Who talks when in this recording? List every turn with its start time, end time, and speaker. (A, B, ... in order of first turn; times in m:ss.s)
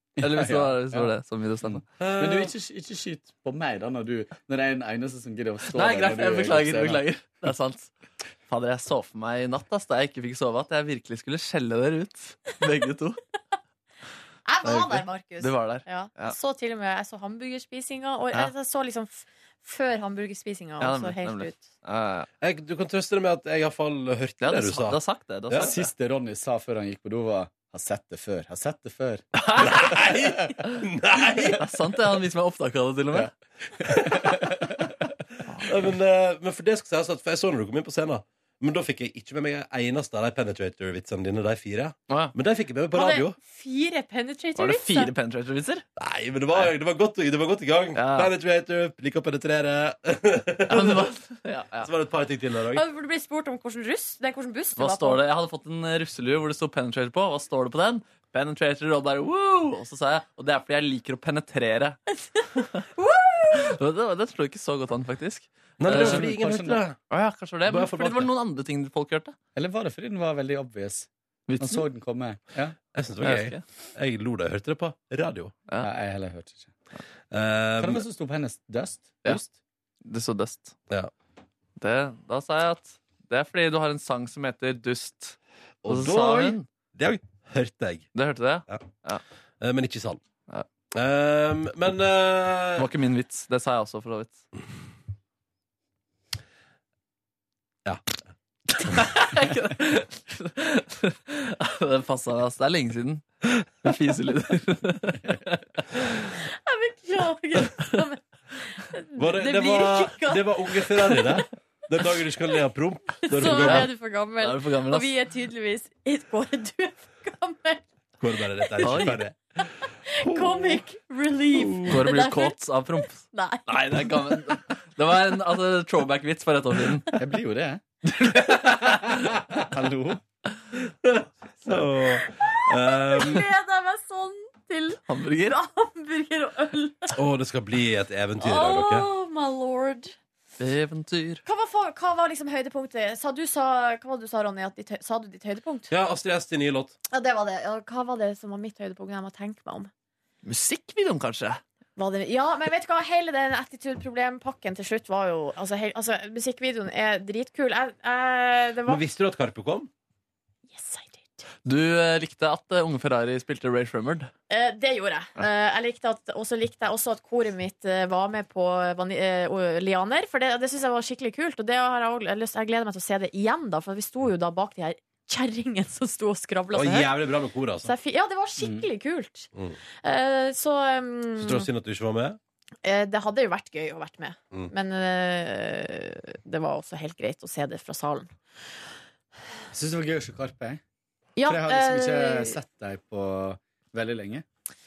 0:00.2-0:01.1 A
0:00.2-0:01.8 B
0:01.6-0:07.0 A
0:02.0-0:02.5 C
0:05.6-0:07.9 B
0:08.5-0:13.2 B
0:14.4-0:21.7 D
0:14.6-0:16.4 B
0:20.8-0:22.3 B
0:22.4-0:25.0 C
0:24.4-0:25.9 B
0:25.5-0:25.7 C
0:25.6-0:29.3 A
0:29.4-0:30.0 B
0:29.6-0:31.6 C
0:31.5-0:33.3 B
0:33.8-0:34.8 A
0:35.6-0:43.4 C
0:42.9-0:45.1 D
0:44.6-0:45.8 B
0:46.0-0:51.1 C
0:47.9-0:48.3 B
0:50.7-0:51.9 B
0:51.8-0:52.8 C
0:52.7-0:55.2 D
0:54.8-1:02.0 B
1:03.0-1:03.7 D
1:03.5-1:06.3 B
1:05.8-1:07.0 C
1:05.8-1:06.8 A
1:07.1-1:09.3 B
1:07.6-1:08.3 C
1:09.5-1:12.8 A
1:11.5-1:11.8 B
1:12.9-1:15.5 C
1:13.2-1:13.6 B
1:15.8-1:16.7 A
1:17.3-1:18.0 C
1:17.8-1:19.5 A
1:20.0-1:20.7 B
1:21.8-1:26.6 B
1:25.8-1:28.1 C
1:28.1-1:29.2 B
1:29.6-1:30.2 C
1:30.9-1:32.9 C
1:32.8-1:34.4 B
1:38.8-1:45.6 B
1:46.3-1:51.4 D
1:49.2-1:53.9 C
1:53.2-1:57.9 D
1:53.4-1:55.1 B
1:58.2-1:59.6 C
1:58.6-1:59.0 D
1:58.8-1:59.2 B
2:00.0-2:02.6 D
2:00.2-2:00.8 C
2:01.6-2:01.9 C
2:01.8-2:07.1 B
2:03.3-2:04.1 D
2:07.1-2:07.8 A
2:08.1-2:09.2 B
2:09.6-2:10.2 A
2:11.0-2:13.4 C
2:12.1-2:17.1 D
2:15.1-2:15.6 B
2:17.1-2:19.1 C
2:18.4-2:20.1 D
2:20.6-2:21.4 B
2:21.4-2:25.9 D
2:25.9-2:26.9 C
2:27.1-2:29.9 D
2:30.4-2:31.6 B
2:32.0-2:39.0 D
2:38.8-2:39.9 C
2:40.7-2:41.4 D
2:41.6-2:44.3 B
2:44.5-2:57.1 D
2:56.7-2:57.9 C
2:57.8-2:59.5 D
2:58.6-2:58.9 A
3:00.0-3:01.7 D
3:01.4-3:02.4 C
3:02.8-3:08.3 D
3:09.7-3:10.8 A
3:11.4-3:12.6 D
3:11.4-3:14.4 A